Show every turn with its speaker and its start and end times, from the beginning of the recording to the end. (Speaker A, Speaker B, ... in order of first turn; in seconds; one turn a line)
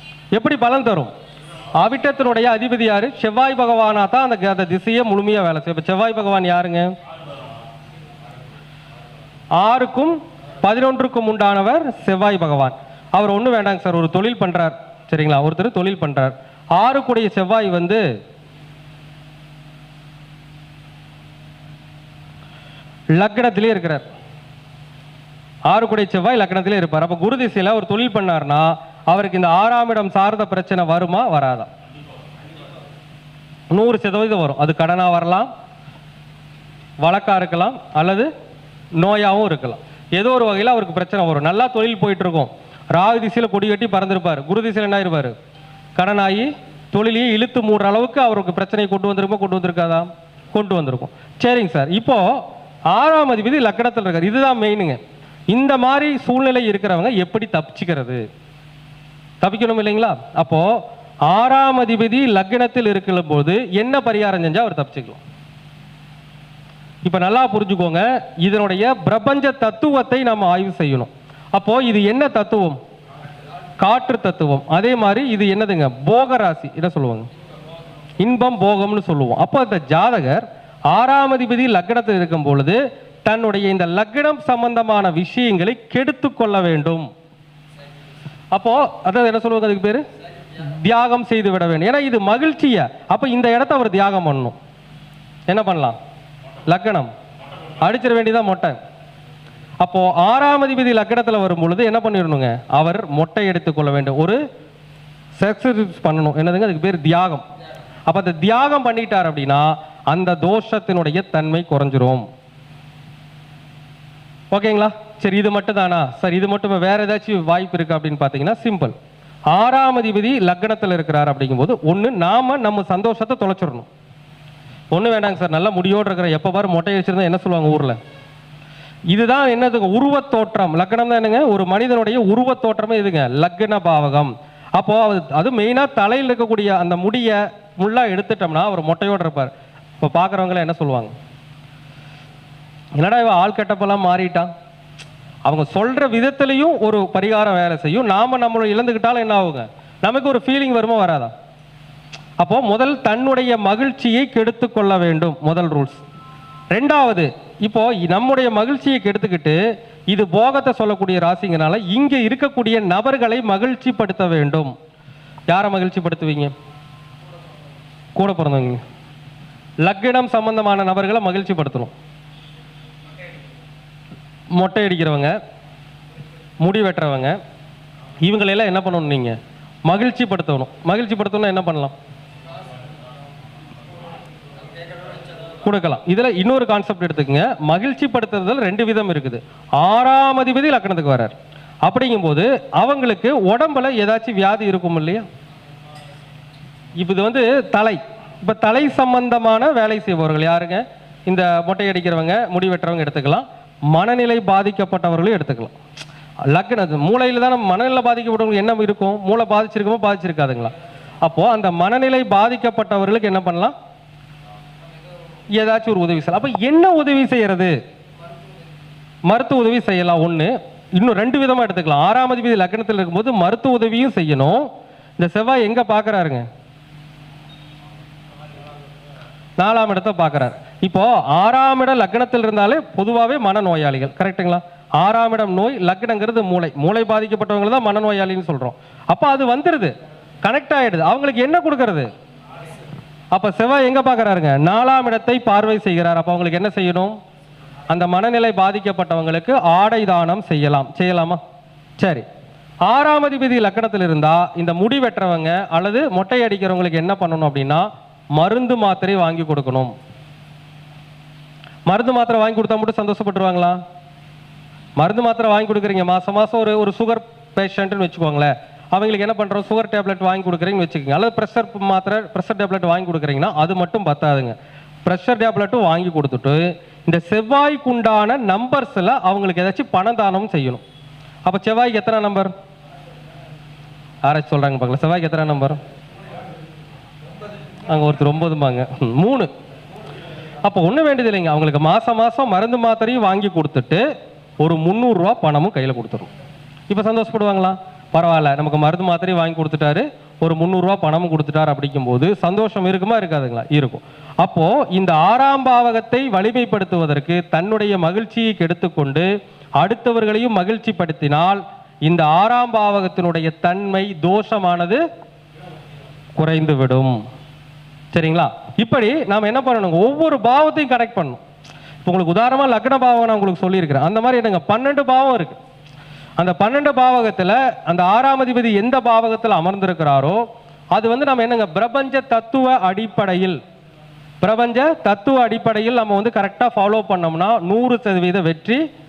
Speaker A: 0.3-1.1
Speaker A: 1.8-6.9
Speaker A: 9.6-18.0
Speaker A: 23.1-24.0
Speaker A: 25.7-31.7
Speaker A: 33.7-35.5
Speaker A: 37.0-38.3
Speaker A: 39.0-45.3
Speaker A: 46.0-55.0
Speaker A: 55.5-58.2
Speaker A: 59.4-65.2
Speaker A: 67.0-72.8
Speaker A: 73.8-77.3
Speaker A: 78.2-87.1
Speaker A: 88.5-90.0
Speaker A: 90.6-94.5
Speaker A: 95.5-96.0
Speaker A: 96.7-97.1
Speaker A: 97.8-98.8
Speaker A: 99.8-104.4
Speaker A: 105.4-107.4
Speaker A: 108.1-112.2
Speaker A: 114.5-118.9
Speaker A: 119.5-123.9
Speaker A: 124.9-128.0
Speaker A: 129.1-141.1
Speaker A: 143.0-144.5
Speaker A: 145.4-151.3
Speaker A: 152.4-156.0
Speaker A: 156.7-164.7
Speaker A: 165.5-166.5
Speaker A: 168.1-168.8
Speaker A: 169.8-171.9
Speaker A: 174.5-175.4
Speaker A: 176.6-177.4
Speaker A: 178.2-181.9
Speaker A: 185.6-195.2
Speaker A: 197.0-205.7
Speaker A: 206.5-213.7
Speaker A: 215.5-217.8
Speaker A: 219.3-226.4
Speaker A: 229.6-242.1
Speaker A: 243.3-247.2
Speaker A: 247.9-251.4
Speaker A: 252.0-252.2
Speaker A: 252.8-259.9
Speaker A: 261.9-263.8
Speaker A: 265.0-280.8
Speaker A: 281.4-282.5
Speaker A: 284.2-285.8
Speaker A: 287.9-289.5
Speaker A: 290.6-294.0
Speaker A: 294.6-296.3
Speaker A: 296.9-315.0
Speaker A: 316.4-317.2
Speaker A: 318.1-321.4
Speaker A: 322.0-325.6
Speaker A: 326.4-333.6
Speaker A: 334.4-338.8